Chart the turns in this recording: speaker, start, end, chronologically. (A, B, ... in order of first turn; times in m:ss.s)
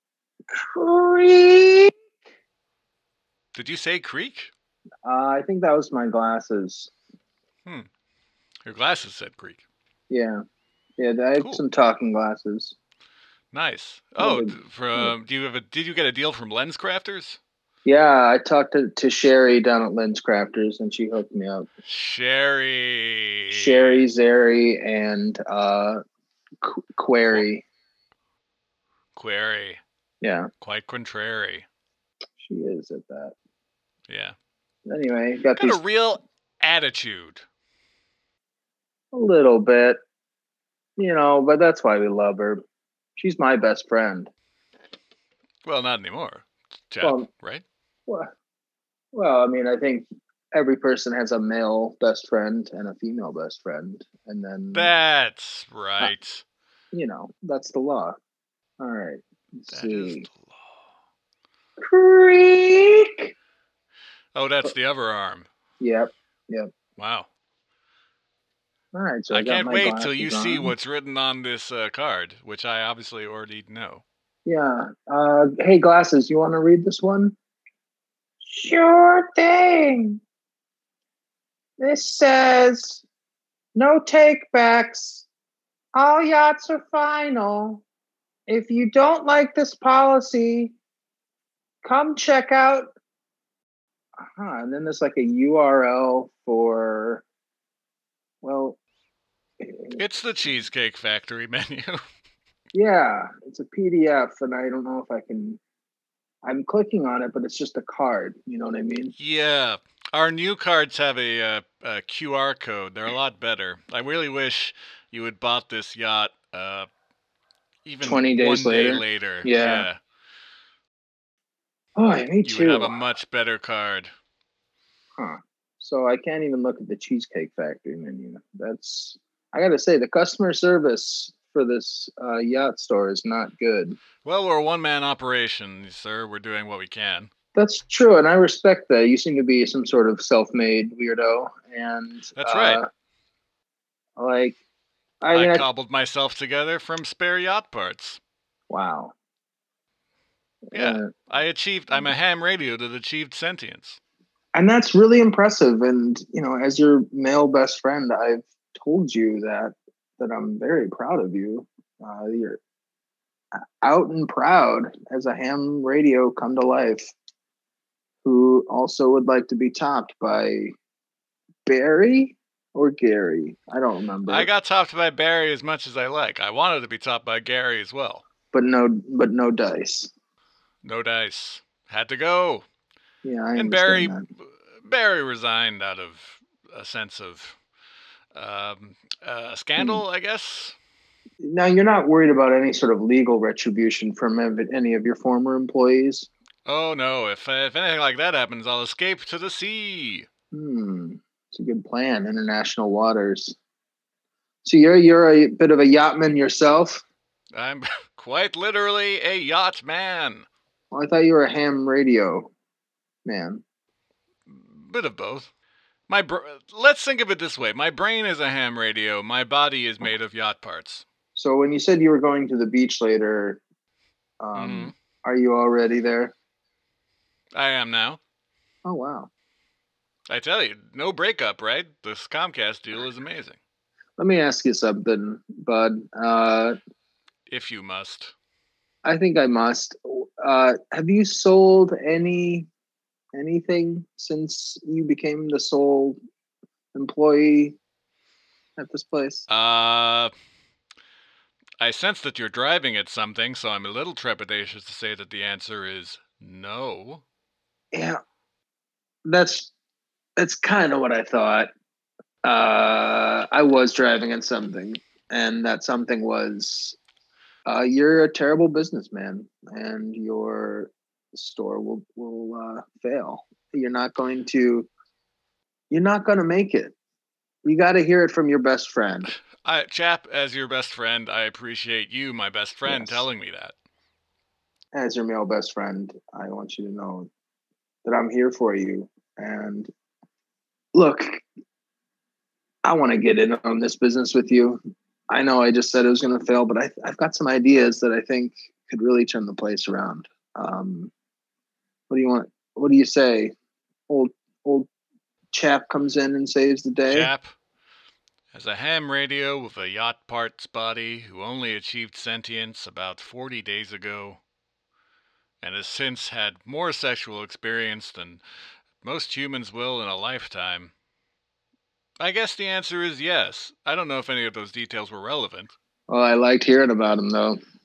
0:00.8-0:01.9 A
0:03.5-0:04.5 B
0:05.0-0:06.9 A
0:08.6-0:09.6 B
0:10.1-0:10.4 A
0:11.0-0:12.8 A
0:13.5-0:17.4 B
0:14.2-0:15.1 A
0:17.8-0:21.7 A
0:21.9-0:24.0 B
0:23.5-0:26.0 A
0:26.6-0:27.6 A
0:29.2-0:29.8 B
0:30.2-0:30.5 A
0:30.6-0:31.6 B
0:32.4-0:33.3 A
0:34.1-0:34.4 B
0:34.9-0:35.8 A
0:35.6-0:37.4 B
0:39.1-0:40.0 A
0:41.0-0:42.6 A
0:43.2-0:44.3 A
0:45.6-0:47.6 B
0:47.0-0:47.3 A
0:49.1-0:54.9 A
0:54.7-0:56.4 B
0:56.9-0:58.2 A
0:58.8-1:00.2 A
0:59.7-1:00.6 B
1:01.8-1:03.3 A
1:04.3-1:05.5 B
1:05.8-1:06.7 A
1:07.0-1:07.3 B
1:08.9-1:10.8 A
1:09.3-1:14.0 B
1:14.4-1:17.3 A
1:18.4-1:20.2 A
1:21.8-1:23.0 A
1:23.8-1:25.3 A
1:25.9-1:27.8 A
1:28.5-1:30.7 A
1:31.8-1:32.9 A
1:34.3-1:37.2 A
1:38.4-1:38.8 A
1:39.6-1:40.0 A
1:40.0-1:42.0 B
1:42.7-1:45.6 A
1:46.4-1:49.1 A
1:49.2-1:56.9 B
1:57.8-2:00.0 B
1:58.0-1:59.9 A
2:02.0-2:03.0 A
2:02.4-2:04.1 B
2:05.2-2:14.0 A
2:14.2-2:17.3 B
2:17.5-2:22.9 A
2:22.4-2:22.8 B
2:24.2-2:24.6 A
2:25.2-2:25.6 A
2:25.3-2:28.2 B
2:28.7-2:29.1 A
2:30.7-2:31.1 A
2:30.7-2:34.0 B
2:34.5-2:42.6 A
2:43.8-2:47.1 A
2:48.2-2:50.8 A
2:51.6-2:54.5 A
2:54.3-2:58.2 B
2:58.5-3:00.1 A
3:00.8-3:02.6 B
3:03.2-3:04.2 A
3:03.5-3:04.2 B
3:04.8-3:07.6 B
3:08.3-3:10.8 B
3:09.8-3:10.0 A
3:11.4-3:16.3 A
3:16.6-3:20.3 B
3:20.5-3:23.6 A
3:24.6-3:27.0 A
3:27.5-3:30.4 B
3:30.9-3:32.5 A
3:33.2-3:33.6 A
3:34.5-3:35.5 B
3:36.1-3:41.0 B
3:41.3-3:43.6 A
3:44.4-3:46.3 A
3:44.6-3:44.9 B
3:47.5-3:48.2 B
3:48.8-3:49.3 A
3:50.3-3:53.6 B
3:54.2-3:56.8 A
3:57.5-3:58.3 B
3:59.0-4:02.7 A
4:03.3-4:06.2 A
4:06.9-4:07.8 A
4:08.8-4:09.4 A
4:09.5-4:10.3 B
4:11.8-4:17.2 B
4:17.9-4:18.2 A
4:19.2-4:19.7 A
4:20.4-4:21.7 A
4:22.4-4:27.0 A
4:27.6-4:34.9 A
4:35.9-4:36.9 A
4:37.6-4:39.3 A
4:39.6-4:43.7 B
4:42.8-4:43.3 A
4:44.9-4:47.3 A
4:48.0-4:49.9 A
4:50.9-4:51.4 A
4:52.8-5:01.1 A
5:02.1-5:03.5 A
5:04.1-5:04.9 A
5:05.5-5:07.3 A
5:07.1-5:07.5 B
5:08.5-5:14.4 B
5:15.6-5:18.4 B
5:19.0-5:20.9 B
5:22.2-5:25.7 B
5:26.1-5:27.6 A